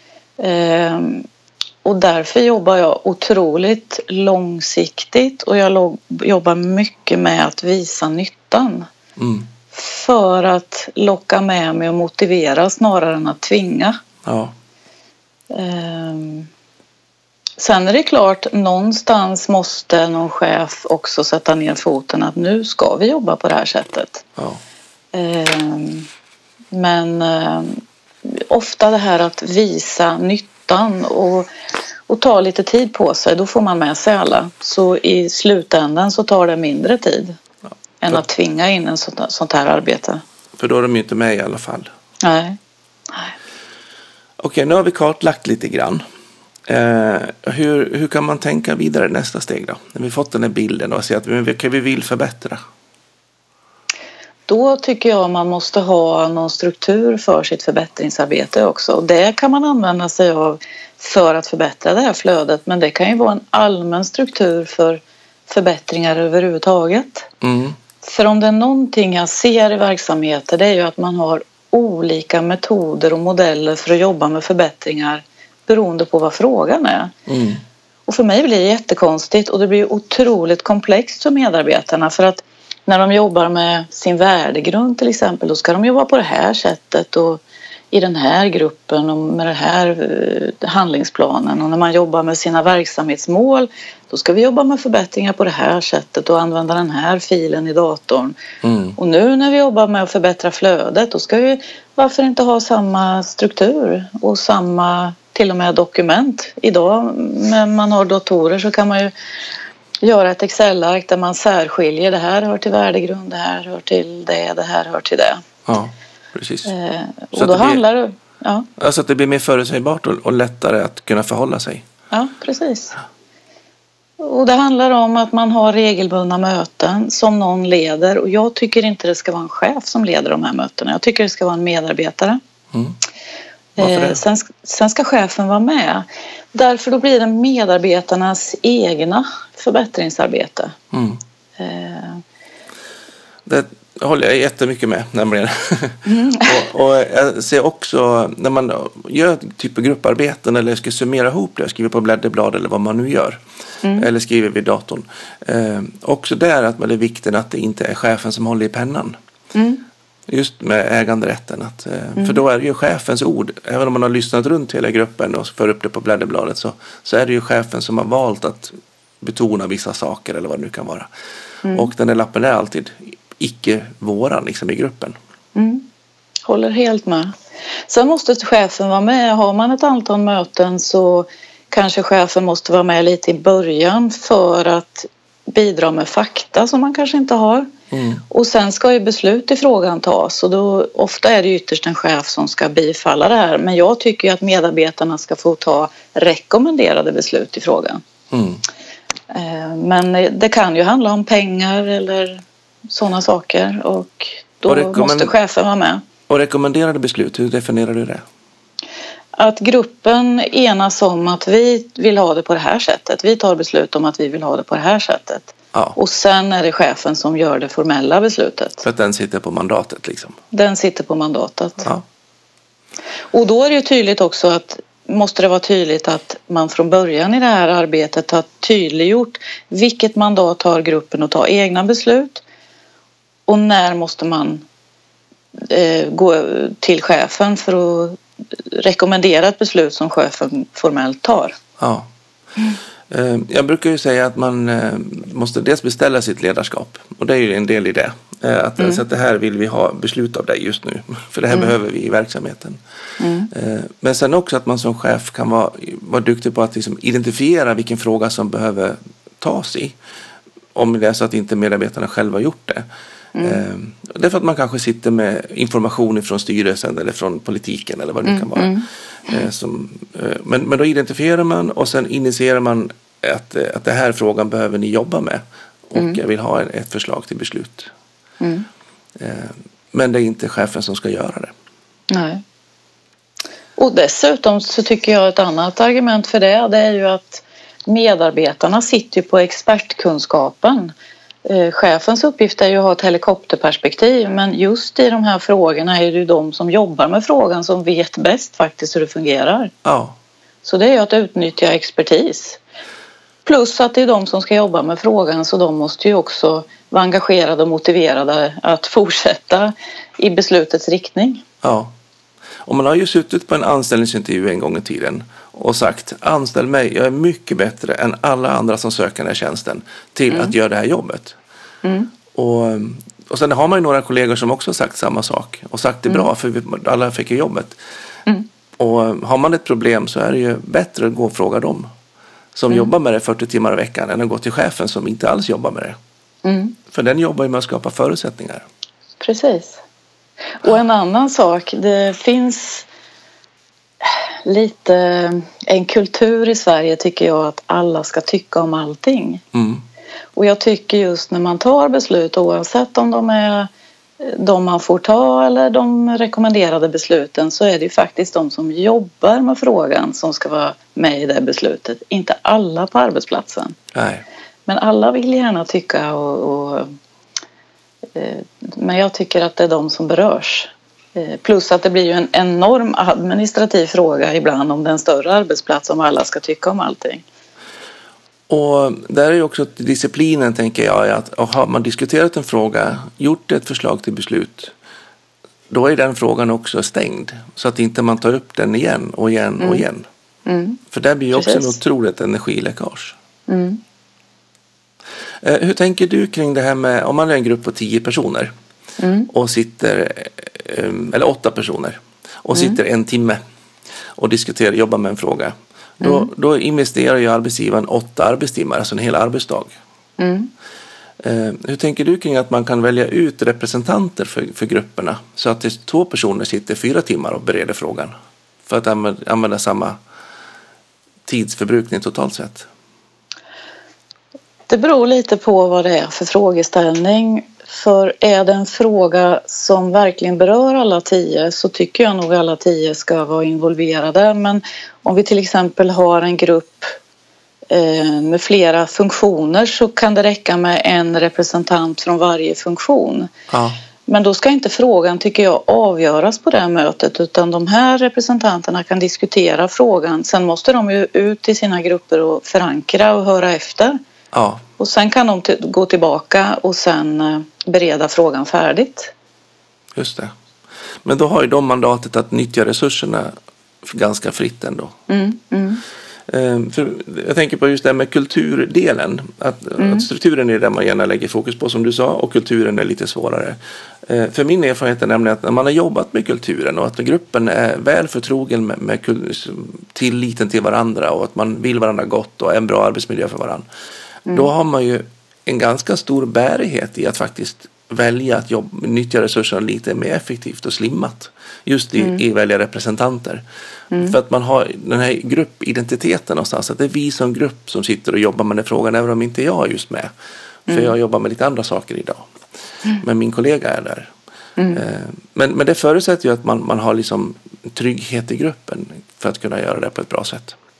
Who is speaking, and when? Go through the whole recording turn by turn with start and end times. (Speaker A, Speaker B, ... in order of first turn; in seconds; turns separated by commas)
Speaker A: 0.4-1.3, Speaker A: 1.8-8.9, Speaker B: 9.2-9.5, Speaker A: 9.7-14.0, Speaker B: 14.2-14.5, Speaker A: 15.5-16.5, Speaker A: 17.6-24.3, Speaker A: 25.1-26.1, Speaker A: 26.7-31.5, Speaker A: 32.1-37.4, Speaker A: 38.0-40.2, Speaker B: 40.6-41.9, Speaker A: 42.2-42.6, Speaker B: 44.4-46.0, Speaker B: 46.7-52.6, Speaker A: 54.5-67.3, Speaker B: 67.4-67.8, Speaker A: 68.0-77.1, Speaker B: 77.3-77.6, Speaker A: 78.1-98.4, Speaker B: 98.6-99.0, Speaker A: 99.0-109.1, Speaker A: 110.0-115.4, Speaker B: 115.7-116.7, Speaker A: 116.7-118.7, Speaker B: 117.3-117.8, Speaker B: 118.8-121.9, Speaker A: 122.1-123.0, Speaker A: 124.2-132.4, Speaker B: 133.8-134.2, Speaker A: 133.8-140.8, Speaker B: 140.9-141.2, Speaker A: 141.6-142.2, Speaker B: 143.5-153.4, Speaker A: 146.1-146.7, Speaker A: 153.8-154.1, Speaker B: 154.0-159.2, Speaker A: 159.5-159.8, Speaker B: 160.3-171.1, Speaker A: 171.6-171.9, Speaker B: 171.7-175.2, Speaker A: 175.6-175.9, Speaker A: 176.5-177.3, Speaker A: 177.9-187.7, Speaker B: 187.9-188.2, Speaker A: 188.3-198.0, Speaker B: 198.3-198.6, Speaker A: 199.3-206.0, Speaker B: 204.7-205.3, Speaker B: 206.3-208.2, Speaker A: 209.4-218.8, Speaker B: 218.8-220.4, Speaker A: 220.5-221.9, Speaker A: 223.3-232.4, Speaker A: 233.5-234.7, Speaker A: 235.7-241.6, Speaker B: 241.8-242.1, Speaker B: 243.1-252.8, Speaker A: 253.2-253.5, Speaker B: 253.5-260.0, Speaker B: 260.8-262.9, Speaker A: 263.4-263.6, Speaker B: 263.4-277.9, Speaker A: 268.3-268.9, Speaker A: 278.4-278.7, Speaker B: 279.2-281.5, Speaker A: 282.1-282.4, Speaker A: 283.8-290.9, Speaker A: 291.5-299.7, Speaker B: 299.8-300.2, Speaker A: 300.6-302.6, Speaker A: 303.5-311.4, Speaker B: 311.6-311.9, Speaker B: 312.6-321.4, Speaker A: 321.8-322.1, Speaker B: 322.3-327.8, Speaker B: 328.8-331.9, Speaker B: 332.6-336.0, Speaker A: 336.4-336.8, Speaker B: 336.9-338.6, Speaker A: 339.2-339.8, Speaker A: 340.6-342.9, Speaker A: 344.0-349.4, Speaker B: 349.5-349.8, Speaker A: 350.4-353.7, Speaker A: 354.2-363.8, Speaker B: 363.9-364.2, Speaker A: 364.7-366.9, Speaker A: 368.2-377.2, Speaker B: 378.5-384.7, Speaker B: 385.7-390.1, Speaker A: 389.6-389.9, Speaker A: 390.5-390.8, Speaker B: 390.9-393.2, Speaker A: 391.3-391.8, Speaker A: 393.5-393.8, Speaker B: 395.4-398.5, Speaker A: 399.0-399.3, Speaker B: 399.3-403.4, Speaker A: 402.6-402.8, Speaker B: 404.2-409.7, Speaker A: 406.0-406.3, Speaker A: 410.2-410.5, Speaker B: 411.2-418.1, Speaker B: 418.7-420.0, Speaker B: 421.3-422.7, Speaker A: 424.7-437.0, Speaker A: 437.7-443.3, Speaker B: 443.5-443.8, Speaker A: 444.1-454.0, Speaker B: 454.3-454.6, Speaker A: 454.8-459.1, Speaker B: 459.9-460.3, Speaker B: 461.0-463.3, Speaker B: 463.8-464.9, Speaker A: 465.1-465.8, Speaker B: 466.3-483.7, Speaker A: 469.8-470.1, Speaker B: 484.3-493.4, Speaker A: 493.9-494.2, Speaker B: 494.0-500.1, Speaker B: 500.7-502.2, Speaker B: 503.0-504.1, Speaker A: 504.6-504.8, Speaker B: 504.7-510.6